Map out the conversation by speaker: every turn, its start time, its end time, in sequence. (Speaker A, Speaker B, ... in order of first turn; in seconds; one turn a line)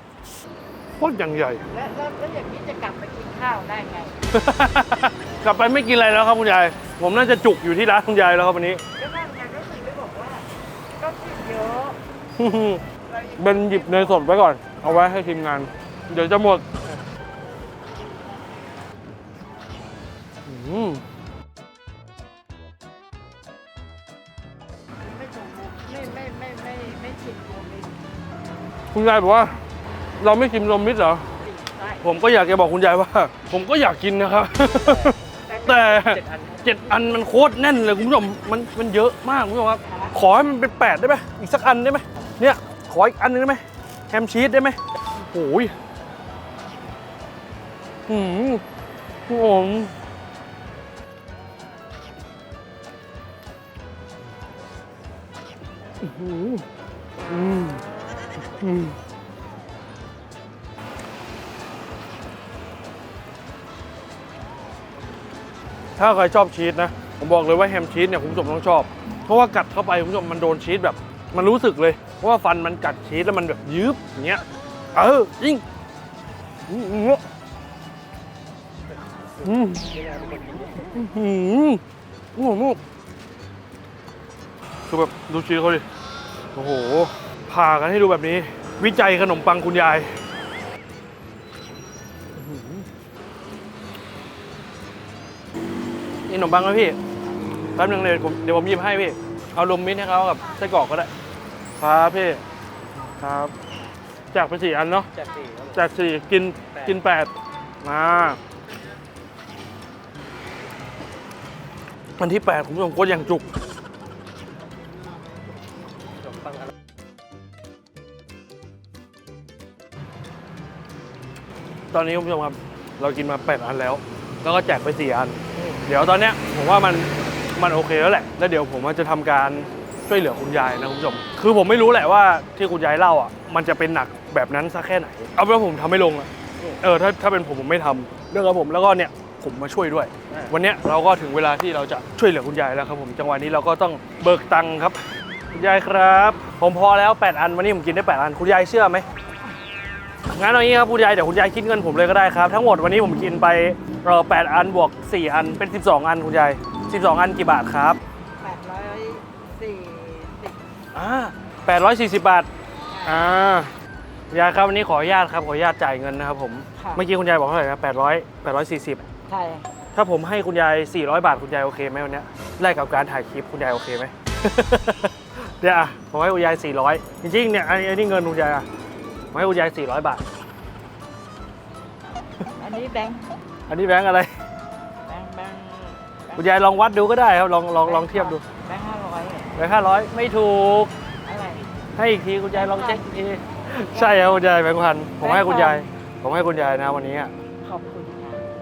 Speaker A: 0.9-1.6
Speaker B: 1.7-4.2
Speaker A: 4.3-8.8
Speaker B: 9.0-10.5
Speaker B: 11.0-12.0
Speaker A: 12.4-12.8
Speaker B: 13.1-14.4
Speaker A: 13.4-16.6
Speaker A: 20.4-21.0
Speaker B: 25.0-27.9
Speaker A: 28.9-29.6
Speaker A: 30.2-31.2
Speaker B: 31.4-32.0
Speaker A: 32.0-45.7
Speaker B: 35.5-36.1
Speaker C: 35.6-36.5
Speaker B: 39.8-40.1
Speaker A: 48.1-48.6
Speaker A: 49.3-50.0
Speaker A: 56.0-56.6
Speaker A: 57.3-57.8
Speaker A: 58.5-58.9
Speaker A: 66.0-75.6
Speaker A: 76.7-77.2
Speaker A: 79.4-79.9
Speaker C: 79.9-80.8
Speaker A: 80.8-81.8
Speaker A: 82.3-82.8
Speaker A: 84.9-85.8
Speaker A: 86.5-90.2
Speaker A: 92.3-92.8
Speaker A: 96.3-97.0
Speaker A: 97.7-101.1
Speaker A: 101.8-102.4
Speaker A: 103.2-103.5
Speaker A: 104.3-105.1
Speaker C: 105.2-105.6
Speaker A: 105.7-107.3
Speaker A: 107.8-108.4
Speaker A: 112.2-113.5
Speaker A: 121.9-136.3
Speaker A: 136.8-145.0
Speaker A: 145.5-149.1
Speaker A: 150.3-158.0
Speaker B: 158.4-160.6
Speaker A: 160.9-162.5
Speaker B: 162.9-163.3
Speaker A: 163.0-163.7
Speaker A: 164.3-169.0
Speaker B: 166.8-167.0
Speaker B: 169.3-169.6
Speaker A: 169.9-178.7
Speaker A: 179.3-180.2
Speaker B: 182.6-183.2
Speaker A: 183.7-184.3
Speaker B: 185.1-186.4
Speaker A: 186.3-188.4
Speaker B: 187.8-189.5
Speaker A: 189.6-190.9
Speaker A: 191.9-197.3
Speaker B: 192.5-193.1
Speaker B: 193.9-194.5
Speaker B: 195.2-195.8
Speaker B: 197.7-198.4
Speaker C: 197.7-198.4